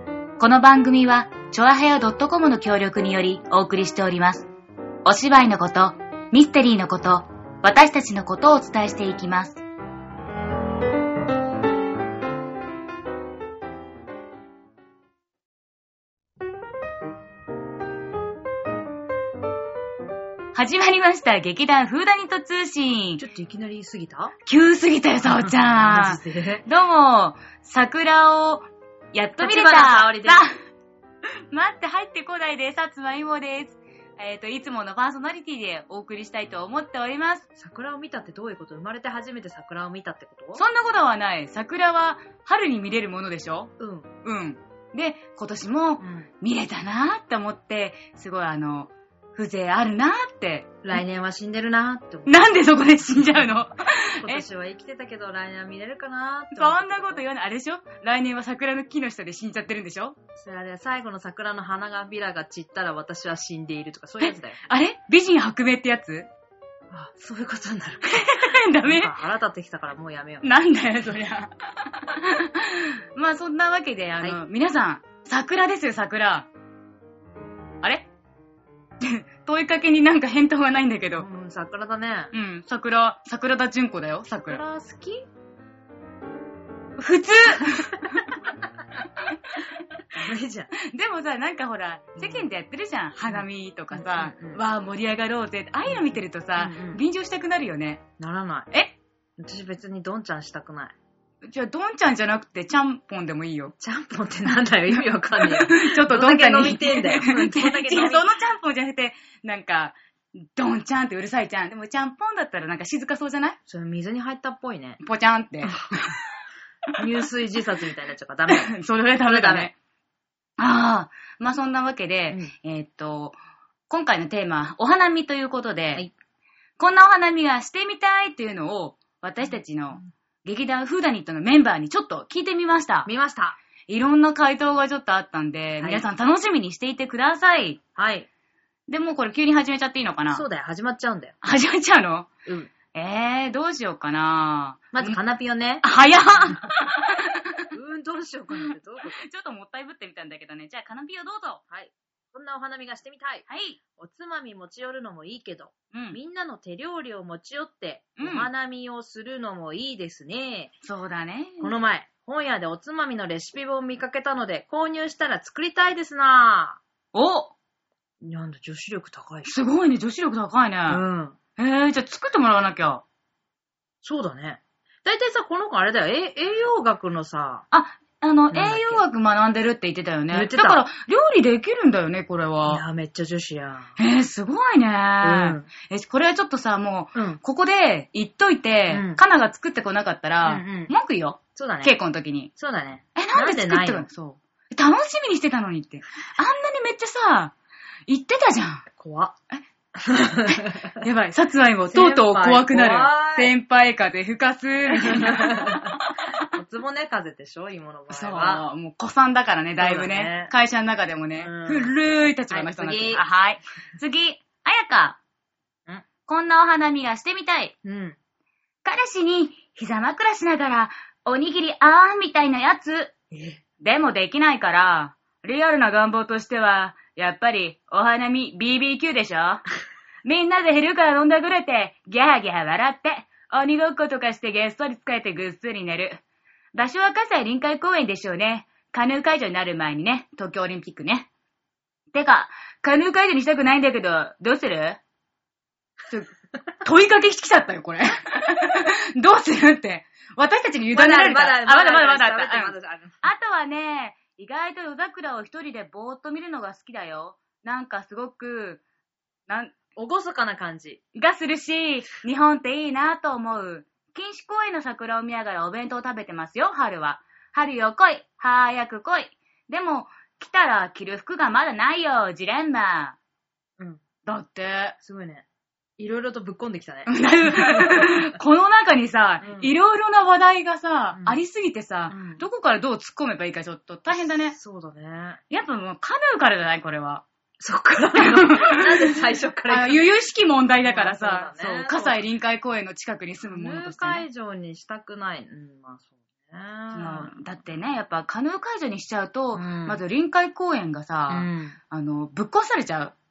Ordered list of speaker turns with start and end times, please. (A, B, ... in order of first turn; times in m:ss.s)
0:00.4-0:04.5 A
0:05.0-0:09.6 A
0:20.5-0:23.2 A
0:23.2-0:24.3 B
0:24.5-0:30.5 A
0:25.2-0:26.6 B
0:29.4-0:30.4 B
0:31.5-0:37.5 A
0:37.6-0:40.6 B
0:40.6-0:43.7 A
0:43.8-0:44.1 B
0:44.2-0:51.0 A
0:46.0-0:46.3 B
0:50.8-0:53.6 B
0:52.3-0:54.4 A
0:54.2-0:57.2 B
0:56.5-1:00.2 A
1:00.4-1:04.6 B
1:04.2-1:06.3 A
1:06.9-1:10.5 B
1:08.1-1:09.1 A
1:10.4-1:16.5 A
1:17.8-1:18.1 A
1:19.0-1:21.3 A
1:21.2-1:22.3 B
1:22.3-1:24.6 A
1:24.5-1:25.2 B
1:27.0-1:28.5 A
1:29.3-1:29.7 A
1:30.1-1:30.7 B
1:30.8-1:38.0 A
1:32.2-1:32.5 B
1:33.3-1:34.6 B
1:35.9-1:37.0 B
1:38.2-1:38.7 B
1:39.4-1:40.9 B
1:41.4-1:43.7 A
1:43.8-1:48.3 B
1:44.9-1:53.6 A
1:53.7-1:55.0 B
1:55.0-1:56.2 A
1:57.0-1:58.7 B
1:58.5-1:59.7 A
1:59.2-1:59.7 B
2:00.6-2:03.4 A
2:03.9-2:06.1 A
2:06.8-2:13.1 A
2:13.1-2:13.6 B
2:13.9-2:17.8 A
2:18.0-2:18.3 B
2:18.9-2:20.5 A
2:20.3-2:21.4 B
2:21.4-2:22.3 A
2:22.5-2:22.7 B
2:22.9-2:25.2 A
2:24.9-2:25.8 B
2:25.8-2:27.6 A
2:26.4-2:26.7 B
2:27.7-2:29.2 B
2:28.5-2:31.6 A
2:31.7-2:33.4 B
2:33.5-2:33.8 A
2:34.0-2:40.7 B
2:35.9-2:36.2 A
2:38.2-2:38.5 A
2:40.8-2:41.7 A
2:41.6-2:46.8 B
2:47.1-2:47.5 A
2:48.2-2:49.5 B
2:49.4-2:51.0 A
2:50.9-2:51.4 B
2:51.6-2:53.0 A
2:54.0-2:57.6 B
2:57.7-3:02.8 A
2:58.5-2:59.0 B
3:00.3-3:00.8 B
3:02.6-3:03.9 B
3:04.0-3:12.5 A
3:05.2-3:05.7 B
3:07.2-3:07.4 B
3:08.9-3:09.2 B
3:10.4-3:10.9 B
3:11.6-3:11.9 B
3:12.6-3:14.1 B
3:13.2-3:17.5 A
3:18.1-3:18.9 A
3:19.0-3:19.3 B
3:20.0-3:21.0 B
3:20.5-3:26.5 A
3:21.9-3:23.5 B
3:24.9-3:28.6 B
3:28.1-3:35.2 A
3:29.8-3:30.5 B
3:31.4-3:31.9 B
3:32.5-3:33.2 B
3:36.3-3:37.8 A
3:37.8-3:38.2 B
3:38.8-3:43.2 A
3:43.3-3:43.6 B
3:43.8-3:49.6 A
3:50.2-3:56.2 A
3:56.7-4:01.3 A
4:02.1-4:05.0 A
4:06.1-4:18.8 A
4:10.9-4:13.2 B
4:19.5-4:19.8 A
4:20.0-4:21.0 B
4:21.1-4:33.2 A
4:34.2-4:35.0 A
4:35.0-4:35.4 B
4:36.0-4:38.4 B
4:37.1-4:44.6 A
4:39.4-4:39.7 B
4:41.1-4:41.4 B
4:42.1-4:42.4 B
4:44.1-4:45.4 B
4:45.5-4:47.2 A
4:47.6-4:50.1 B
4:48.2-4:54.3 A
4:50.8-4:52.2 B
4:53.4-4:57.3 B
4:56.9-5:03.1 A
4:59.6-5:00.0 B
5:01.3-5:01.8 B